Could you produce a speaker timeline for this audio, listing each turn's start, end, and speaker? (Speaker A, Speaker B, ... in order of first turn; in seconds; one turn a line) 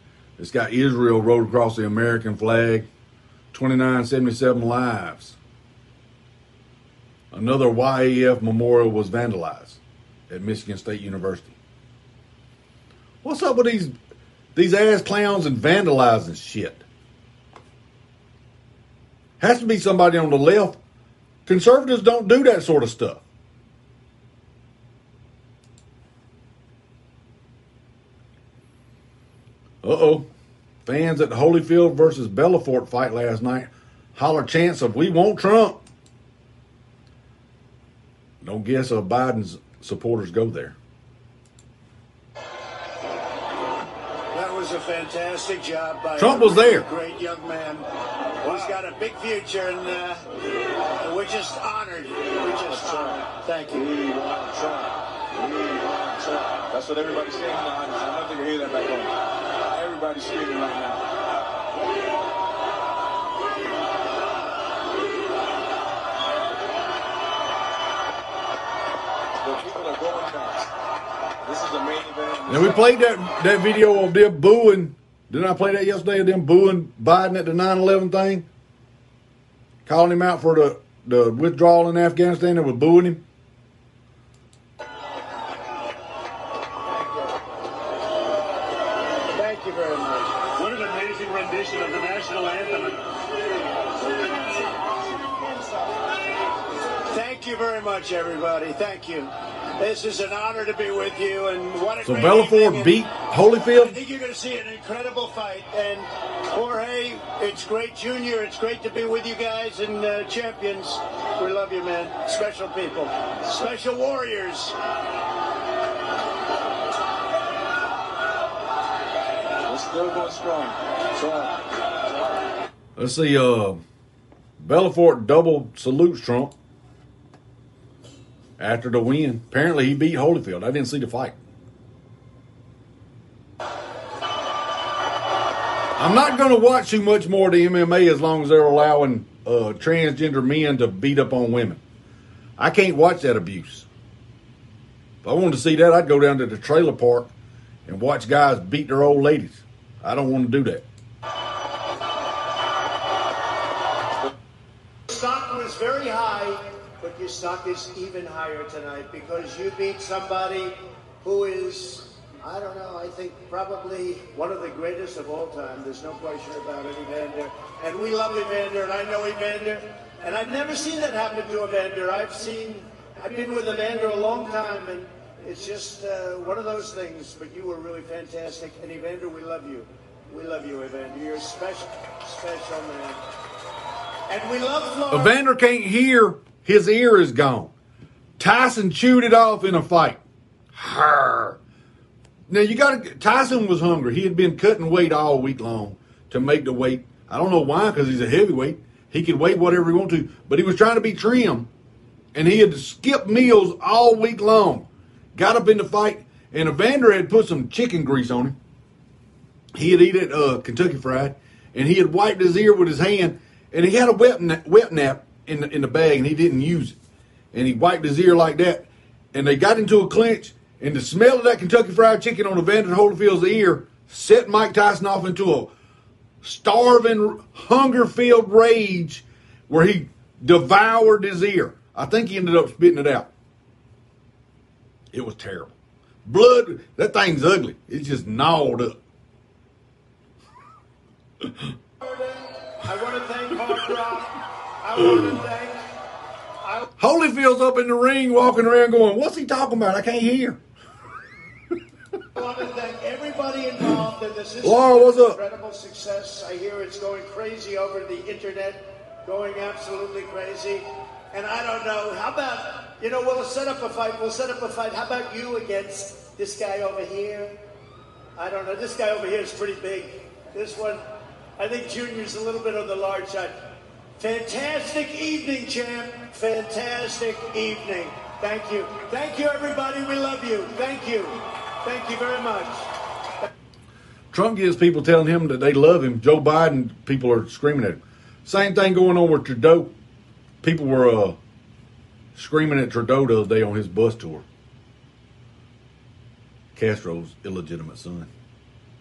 Speaker A: 0.4-2.9
Speaker A: 3.5-5.4
Speaker A: 7.3-11.6
Speaker A: 13.2-13.9
Speaker A: 14.6-16.9
Speaker A: 19.4-20.8
Speaker A: 21.4-23.2
Speaker A: 29.8-30.3
Speaker A: 30.9-35.8
Speaker A: 38.4-40.8
Speaker B: 44.3-47.9
Speaker A: 46.2-46.9
Speaker B: 48.4-50.2
Speaker B: 51.0-54.1
Speaker C: 54.1-54.9
Speaker C: 56.7-59.1
Speaker C: 59.7-61.0
Speaker C: 69.4-70.5
Speaker C: 71.5-72.8
Speaker A: 72.5-78.5
Speaker A: 79.9-83.2
Speaker B: 86.9-87.3
Speaker B: 89.3-93.1
Speaker B: 94.1-95.7
Speaker B: 97.1-103.1
Speaker A: 102.0-104.0
Speaker B: 103.6-114.8
Speaker C: 120.0-120.5
Speaker A: 123.0-123.8
Speaker A: 124.6-126.5
Speaker A: 128.6-131.4
Speaker A: 136.0-141.8
Speaker A: 142.6-143.9
Speaker A: 145.2-147.3
Speaker A: 147.9-150.8
Speaker B: 155.1-183.2
Speaker B: 184.3-185.4
Speaker A: 185.1-187.7
Speaker A: 188.4-190.2
Speaker A: 190.7-191.6
Speaker A: 192.5-201.7
Speaker A: 202.3-208.6
Speaker A: 209.7-217.0
Speaker A: 217.5-225.7
Speaker A: 226.4-233.3
Speaker A: 235.1-239.0
Speaker B: 242.0-245.9
Speaker A: 247.0-250.6
Speaker B: 252.3-267.6
Speaker A: 254.6-255.4
Speaker B: 268.4-282.9
Speaker A: 284.3-289.9
Speaker A: 290.6-291.4
Speaker A: 292.4-294.4
Speaker A: 296.8-298.3